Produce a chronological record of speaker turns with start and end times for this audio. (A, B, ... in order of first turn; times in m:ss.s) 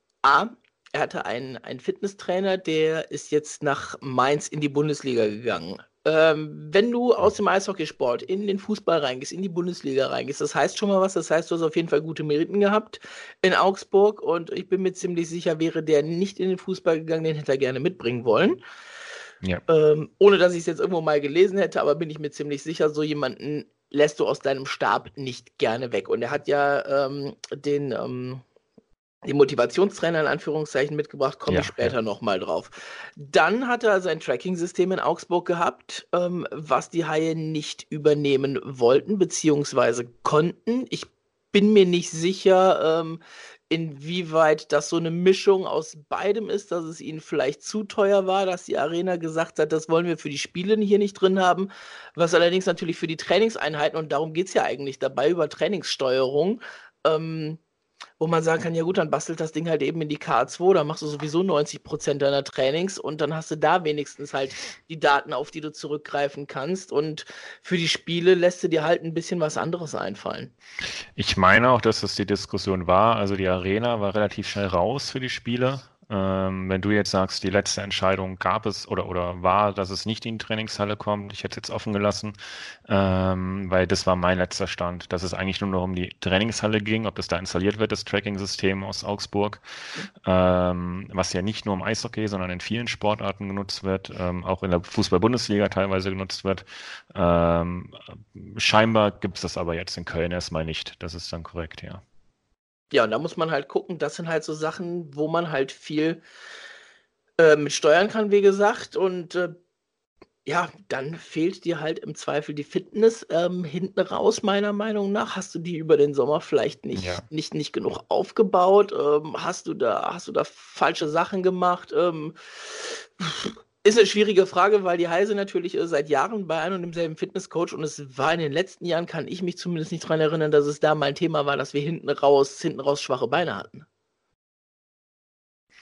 0:00.2-0:18.6 A
0:19.7-0:28.4 A
0:29.2-0:57.6 A
0:31.5-0:31.9 B
0:58.2-1:10.5 A
1:11.2-1:22.4 B
1:22.9-1:29.6 B
1:30.2-1:42.0 B
1:42.9-1:46.2 A
1:47.4-1:49.6 A
1:50.5-2:13.9 A
1:57.0-1:57.2 B